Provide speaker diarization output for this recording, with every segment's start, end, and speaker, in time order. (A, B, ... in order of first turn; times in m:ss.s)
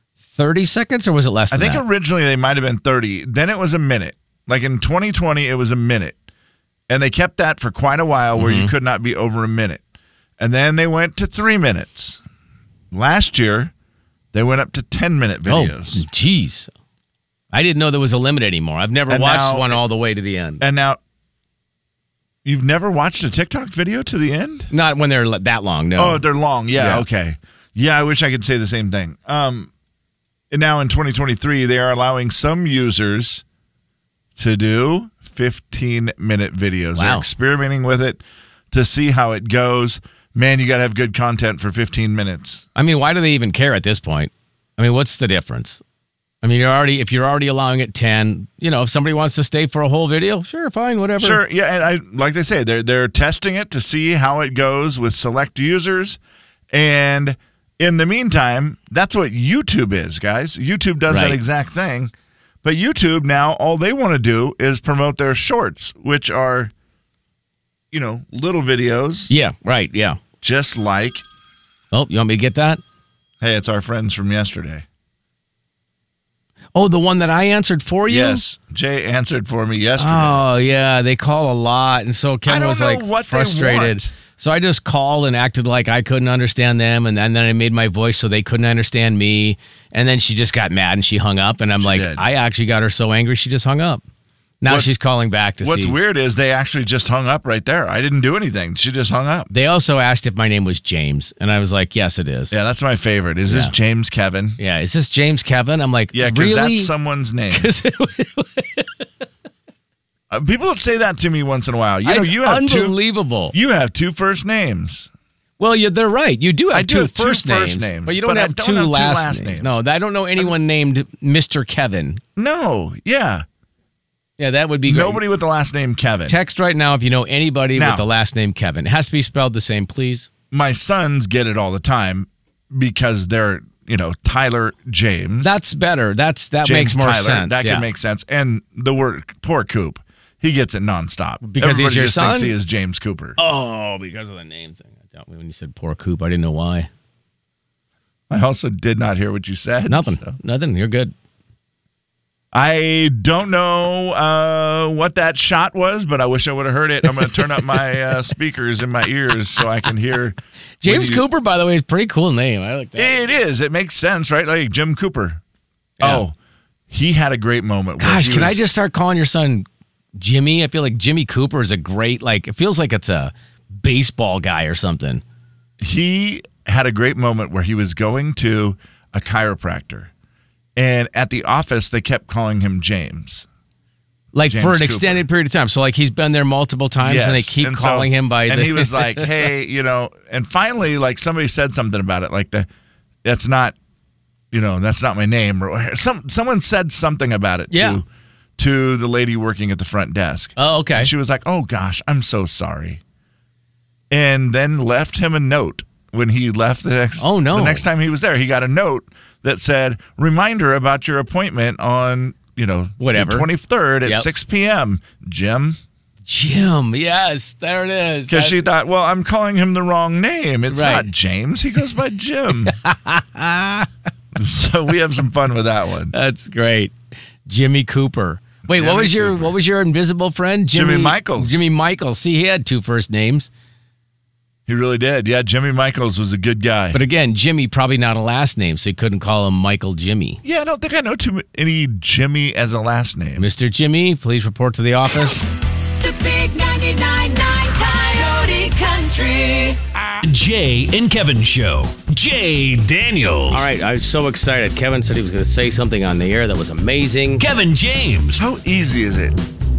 0:00.3-0:01.8 A
0:01.5-0:06.2 B
0:06.9-0:09.8 B
0:08.4-0:08.7 A
0:10.4-0:12.2 B
0:12.9-0:13.7 B
0:14.3-0:16.0 B
0:15.5-0:16.7 A
0:17.5-0:20.6 A
0:19.1-0:19.8 B
0:20.6-0:21.0 B
0:22.4-0:24.7 B
0:24.7-0:27.0 A
0:26.0-0:29.7 B
0:30.5-0:33.4 B
0:34.4-0:42.6 B
0:37.0-0:37.3 A
0:42.8-0:45.8 A
0:46.4-0:51.4 A
0:51.2-0:56.2 B
0:56.7-1:02.1 B
1:01.1-1:01.4 A
1:02.6-1:06.7 B
1:07.9-1:09.3 B
1:09.3-1:10.2 A
1:10.4-1:11.2 B
1:11.9-1:12.8 A
1:13.4-1:14.8 B
1:16.7-1:18.4 A
1:18.1-1:20.4 B
1:20.0-1:34.0 A
1:22.5-1:24.1 B
1:31.8-1:32.2 B
1:34.6-1:36.0 A
1:34.6-1:35.0 B
1:35.6-1:39.5 B
1:39.5-1:42.6 A
1:42.5-1:44.6 B
1:43.5-1:43.7 A
1:44.6-1:46.9 A
1:46.1-1:47.7 B
1:47.5-1:48.9 A
1:50.3-1:53.0 B
1:52.0-1:53.5 A
1:53.5-1:55.1 B
1:55.6-2:02.2 A
1:56.7-1:59.8 B
2:02.4-2:03.4 B
2:04.4-2:05.2 A
2:04.8-2:06.4 B
2:06.3-2:10.3 A
2:07.7-2:08.0 B
2:10.5-2:15.6 B
2:15.4-2:17.8 A
2:16.6-2:23.4 B
2:21.4-2:22.5 A
2:23.4-2:26.9 A
2:28.3-2:30.3 B
2:29.9-2:31.1 A
2:32.5-2:41.2 B
2:37.1-2:37.8 A
2:40.8-2:43.2 A
2:43.0-2:45.4 B
2:46.0-2:46.2 A
2:46.0-2:46.3 B
2:46.9-2:48.6 B
2:48.0-2:55.2 A
2:55.8-3:00.1 B
3:00.8-3:03.5 B
3:04.3-3:09.3 A
3:04.5-3:05.3 B
3:07.0-3:12.7 B
3:13.2-3:13.8 B
3:14.5-3:18.0 B
3:17.7-3:18.0 A
3:18.6-3:23.0 B
3:20.6-3:21.1 A
3:24.1-3:35.8 B
3:27.2-3:27.8 A
3:33.0-3:33.5 A
3:34.0-3:34.3 A
3:36.3-3:38.6 A
3:38.3-3:42.8 B
3:40.7-3:41.1 A
3:42.6-3:43.9 A
3:44.3-3:46.1 B
3:46.1-3:46.9 A
3:47.5-3:53.5 A
3:48.7-3:49.5 B
3:50.7-3:51.6 B
3:54.7-3:57.0 B
3:56.9-4:00.4 A
4:00.4-4:03.5 B
4:03.4-4:05.4 A
4:06.0-4:09.8 C
4:10.2-4:13.7 D
4:13.5-4:17.4 A
4:17.4-4:18.4 D
4:18.3-4:19.4 B